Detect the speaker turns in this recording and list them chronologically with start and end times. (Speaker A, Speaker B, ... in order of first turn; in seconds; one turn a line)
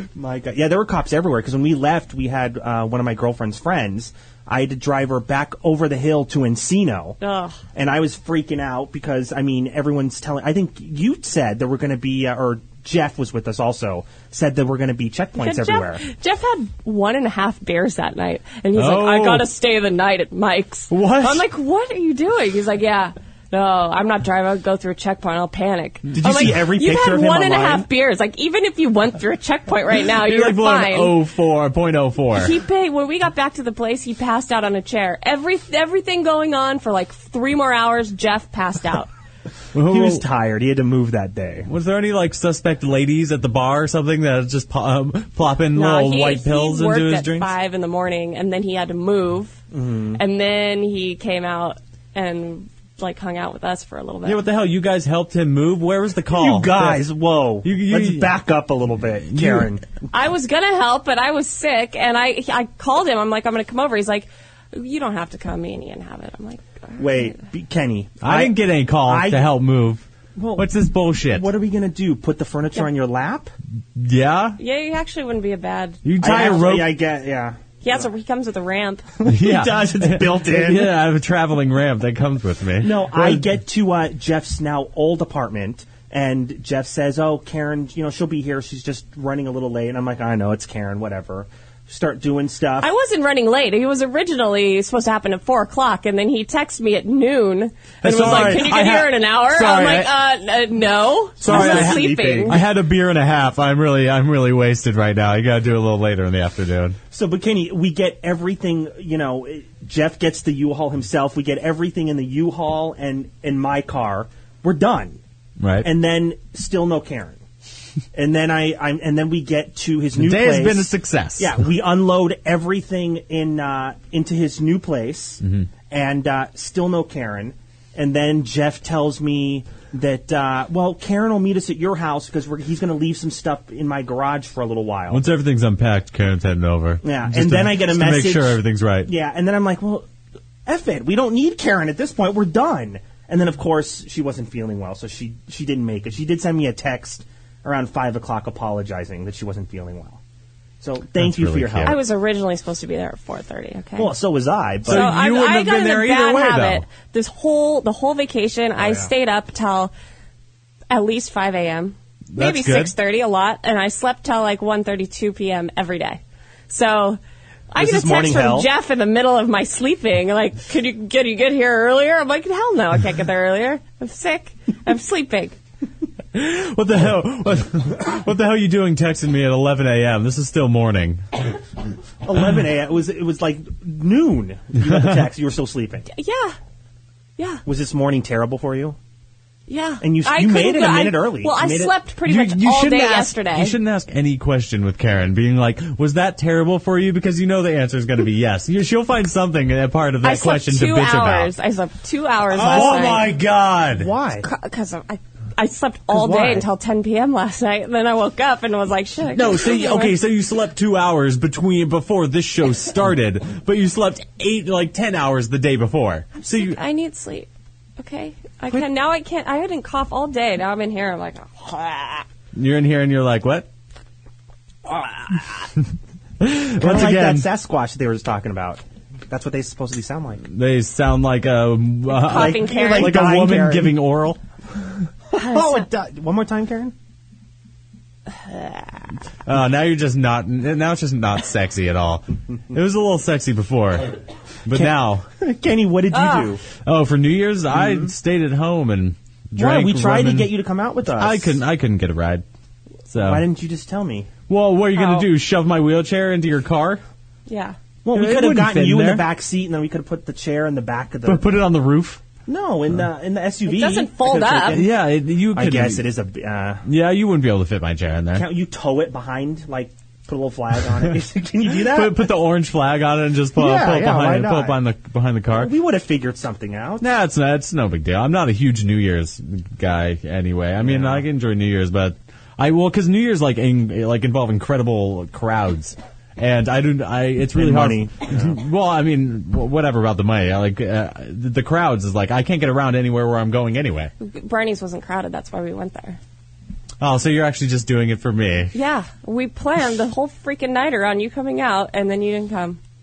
Speaker A: 0.1-7.2
Speaker B: 7.2-7.6
Speaker A: 7.7-16.0
Speaker B: 15.4-31.2
Speaker C: 18.7-19.5
Speaker C: 20.9-21.5
Speaker A: 26.1-27.9
Speaker C: 30.1-32.5
Speaker B: 32.3-39.1
Speaker C: 39.7-40.2
Speaker A: 39.8-41.7
Speaker C: 41.7-47.5
Speaker B: 45.7-49.6
Speaker A: 49.7-50.2
Speaker B: 50.1-54.4
Speaker C: 54.2-57.0
Speaker A: 56.3-59.9
Speaker C: 57.6-58.3
Speaker C: 59.3-59.7
Speaker B: 60.1-67.4
Speaker A: 67.0-69.5
Speaker C: 68.2-70.0
Speaker A: 70.3-70.7
Speaker C: 70.5-71.5
Speaker A: 71.3-73.5
Speaker C: 74.0-74.6
Speaker B: 74.6-76.0
Speaker C: 76.0-77.0
Speaker A: 76.2-78.1
Speaker B: 77.8-79.1
Speaker A: 79.2-81.0
Speaker C: 79.2-83.5
Speaker A: 82.8-92.9
Speaker B: 92.8-102.6
Speaker C: 98.0-100.1
Speaker C: 101.4-107.0
Speaker A: 101.4-102.6
Speaker A: 107.1-115.2
Speaker C: 115.6-115.9
Speaker A: 115.8-117.4
Speaker A: 118.1-135.2
Speaker C: 120.1-121.5
Speaker C: 125.4-125.7
Speaker C: 135.1-139.1
Speaker A: 137.0-140.1
Speaker A: 140.7-150.2
Speaker A: 150.8-152.0
Speaker C: 151.2-152.0
Speaker B: 151.8-154.1
Speaker A: 154.0-155.1
Speaker C: 154.8-156.8
Speaker B: 154.8-159.9
Speaker A: 158.8-159.1
Speaker B: 160.9-167.2
Speaker C: 162.3-162.9
Speaker B: 167.7-175.6
Speaker A: 167.8-168.7
Speaker C: 176.3-181.2
Speaker A: 182.2-186.1
Speaker B: 186.1-186.6
Speaker B: 187.4-187.6
Speaker A: 187.7-189.0
Speaker B: 189.7-193.8
Speaker A: 190.0-192.0
Speaker C: 192.2-201.5
Speaker B: 200.2-203.2
Speaker C: 202.5-204.1
Speaker A: 202.6-203.2
Speaker A: 203.9-204.5
Speaker B: 204.4-210.2
Speaker A: 206.1-206.7
Speaker C: 209.3-216.8
Speaker B: 216.3-222.2
Speaker C: 222.5-223.7
Speaker A: 224.8-225.4
Speaker C: 226.4-227.5
Speaker A: 226.8-230.4
Speaker C: 230.5-234.4
Speaker B: 232.1-233.2
Speaker A: 232.2-234.0
Speaker A: 235.3-236.9
Speaker B: 235.3-235.8
Speaker C: 239.4-244.1
Speaker C: 244.6-245.2
Speaker A: 244.7-246.6
Speaker B: 246.1-246.5
Speaker C: 246.8-250.5
Speaker A: 247.7-248.1
Speaker A: 249.6-251.6
Speaker C: 251.2-252.4
Speaker C: 253.1-253.4
Speaker A: 253.2-254.3
Speaker C: 254.5-257.0
Speaker B: 254.9-255.3
Speaker B: 257.5-257.8
Speaker A: 258.0-261.5
Speaker C: 258.1-259.2
Speaker C: 261.2-262.2
Speaker A: 262.5-264.9
Speaker B: 263.6-264.8
Speaker C: 264.7-266.1
Speaker A: 265.5-266.8
Speaker C: 266.8-268.5
Speaker A: 268.3-272.3
Speaker C: 271.8-275.7
Speaker A: 273.5-274.8
Speaker A: 275.5-277.1
Speaker C: 277.0-294.1
Speaker A: 280.8-281.2
Speaker A: 287.5-288.5
Speaker B: 294.2-296.2
Speaker C: 297.0-298.7
Speaker B: 298.7-302.8